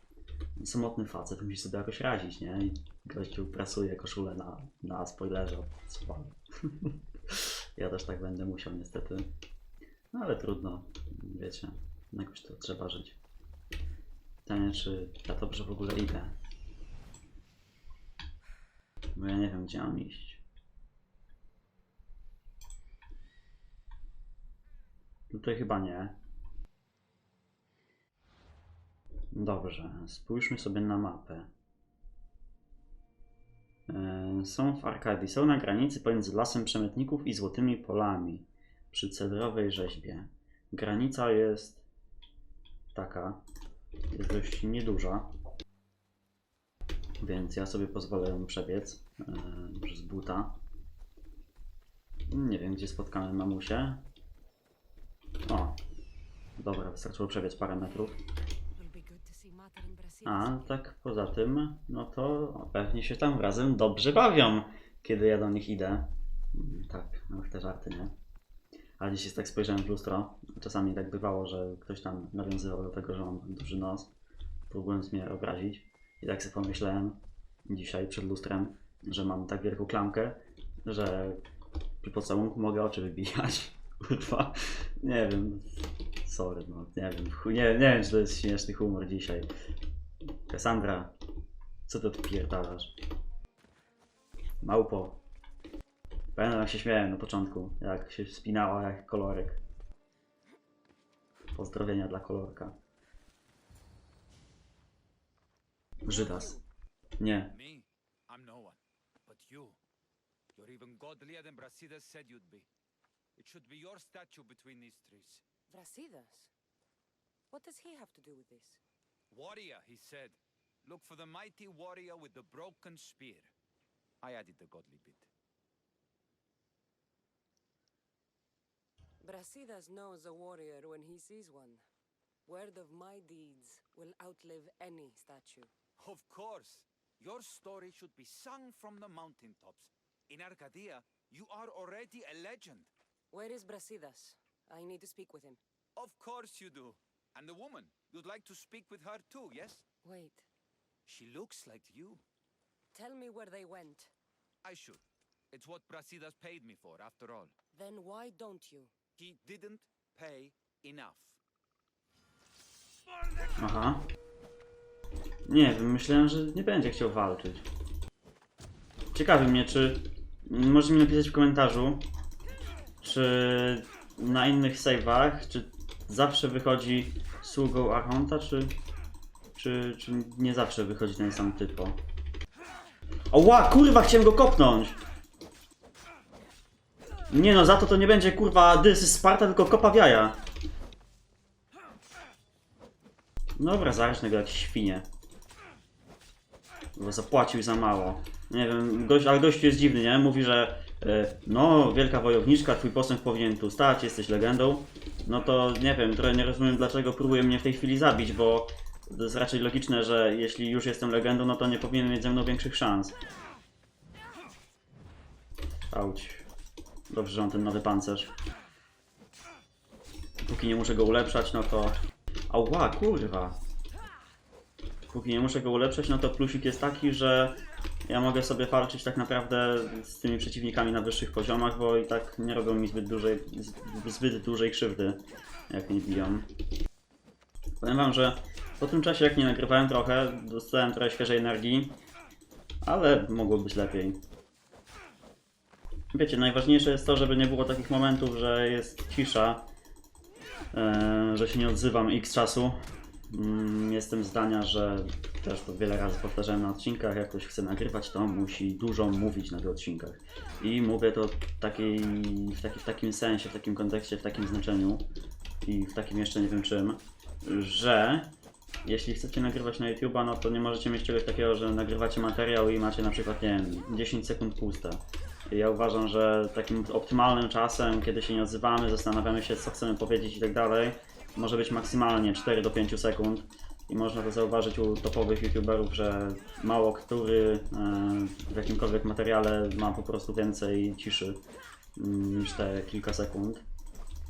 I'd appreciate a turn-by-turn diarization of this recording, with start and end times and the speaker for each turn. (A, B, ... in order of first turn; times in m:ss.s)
0:00.6-0:09.3 A
0:10.1-0:13.2 A
0:14.4-0:16.4 A
0:19.2-0:20.4 A
0:25.3-0:26.2 A
0:29.3-0:31.5 A
0:33.9-0:41.8 A
0:42.9-0:43.4 A
0:44.1-0:45.3 A
0:47.2-0:50.6 A
0:52.3-0:54.0 A
0:55.4-0:55.8 A
0:56.6-0:58.2 A
0:57.8-0:58.1 B
0:58.8-1:00.8 B
1:00.2-1:08.2 A
1:09.0-1:14.1 A
1:14.7-1:21.4 A
1:22.0-1:29.5 A
1:30.5-1:31.2 A
1:31.9-1:33.0 A
1:34.6-1:35.2 A
1:36.3-1:39.6 A
1:41.5-1:42.8 A
1:46.0-1:46.6 A
1:46.1-1:46.6 B
1:47.2-1:47.6 A
1:47.5-1:49.8 C
1:50.6-1:52.7 C
1:53.4-1:55.4 C
1:55.7-1:56.5 B
1:57.5-1:58.8 B
1:59.3-2:03.5 C
2:04.2-2:05.3 C
2:09.2-2:11.8 B
2:12.4-2:15.7 B
2:16.0-2:22.9 C
2:23.3-2:25.6 B
2:26.0-2:29.8 C
2:30.0-2:30.5 B
2:31.1-2:32.2 C
2:32.9-2:34.1 B
2:34.6-2:37.5 C
2:37.7-2:38.9 B
2:39.2-2:41.4 C
2:43.6-2:44.1 A
2:45.5-2:47.7 A
2:49.1-2:52.1 A
2:53.0-2:58.8 A
2:59.6-3:02.0 A
3:03.3-3:05.0 A
3:07.3-3:10.4 A
3:13.6-3:15.1 A
3:17.0-3:33.2 A
3:35.9-3:36.5 A
3:37.1-3:38.3 A
3:40.4-3:42.0 A
3:42.5-3:43.6 A
3:45.1-3:56.5 A
3:57.8-4:02.0 A
4:02.8-4:04.2 A
4:06.1-4:09.7 A
4:10.7-4:25.1 A
4:25.6-4:28.3 A
4:28.8-4:51.4 A
4:52.0-4:53.7 A